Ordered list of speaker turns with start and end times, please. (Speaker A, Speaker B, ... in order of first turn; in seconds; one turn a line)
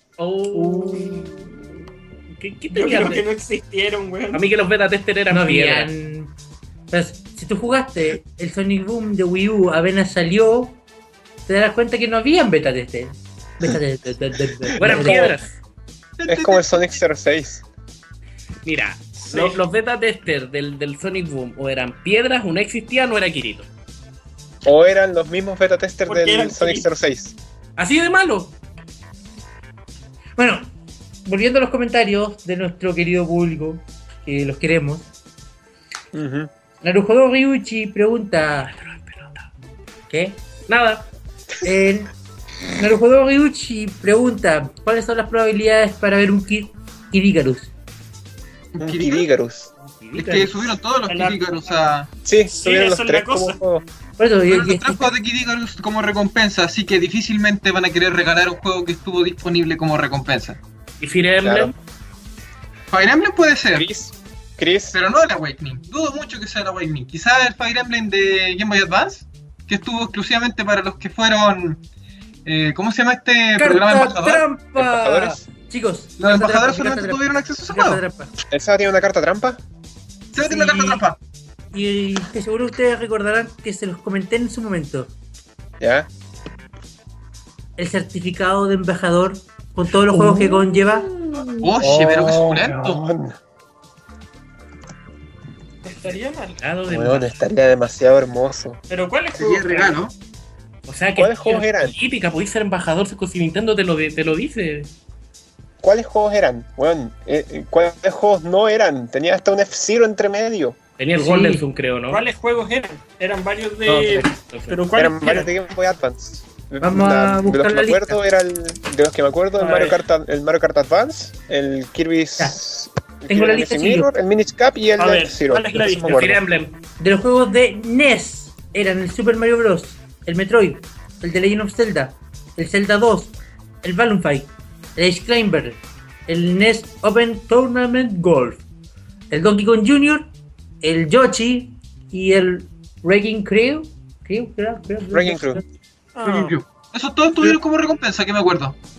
Speaker A: 0.2-3.2
Speaker B: 0.5-1.3
Speaker B: 2.7-4.4
Speaker A: 4.3-5.9
Speaker C: 5.3-6.3
Speaker C: 6.9-10.8
Speaker C: 11.5-15.3
Speaker D: 14.7-15.4
Speaker A: 14.7-15.5
Speaker E: 16.2-16.9
Speaker D: 16.3-17.6
Speaker A: 18.6-23.7
Speaker B: 19.2-19.6
Speaker D: 24.6-27.4
Speaker B: 26.1-26.9
Speaker A: 27.8-28.6
Speaker C: 30.4-30.7
Speaker C: 31.2-35.1
Speaker D: 36.1-36.5
Speaker C: 36.8-38.7
Speaker A: 38.6-39.5
Speaker C: 40.1-40.4
Speaker A: 40.7-41.1
Speaker C: 41.6-42.1
Speaker C: 42.8-47.7
Speaker E: 48.7-49.3
Speaker D: 48.8-49.7
Speaker A: 49.8-50.7
Speaker E: 50.1-52.1
Speaker B: 51.1-51.7
Speaker D: 52.2-53.9
Speaker B: 52.5-53.6
Speaker C: 54.2-55.2
Speaker E: 54.5-60.6
Speaker A: 61.0-61.7
Speaker D: 61.4-61.7
Speaker E: 62.9-63.9
Speaker D: 63.7-65.0
Speaker E: 64.9-71.8
Speaker E: 72.5-74.5
Speaker C: 73.6-78.3
Speaker D: 74.8-75.5
Speaker E: 76.2-78.0
Speaker D: 78.5-79.6
Speaker E: 80.3-81.2
Speaker C: 80.4-81.0
Speaker C: 81.7-85.1
Speaker D: 85.8-86.1
Speaker C: 87.8-91.1
Speaker D: 90.1-93.4
Speaker E: 91.6-93.0
Speaker B: 95.8-96.6
Speaker A: 96.0-97.4
Speaker D: 96.9-98.8
Speaker B: 98.9-100.0
Speaker E: 99.4-100.1
Speaker A: 100.9-104.9
Speaker D: 101.2-102.0
Speaker D: 105.8-110.8
Speaker A: 111.0-112.2
Speaker C: 111.2-111.7
Speaker B: 112.1-115.5
Speaker A: 113.9-114.8
Speaker D: 115.0-126.4
Speaker C: 116.8-118.2
Speaker B: 119.6-120.0
Speaker C: 123.3-124.1
Speaker B: 125.0-126.3
Speaker A: 126.0-126.8
Speaker C: 127.0-138.6
Speaker C: 139.3-140.3
Speaker C: 140.8-145.6
Speaker D: 145.1-145.6
Speaker B: 146.2-146.6
Speaker E: 146.2-148.8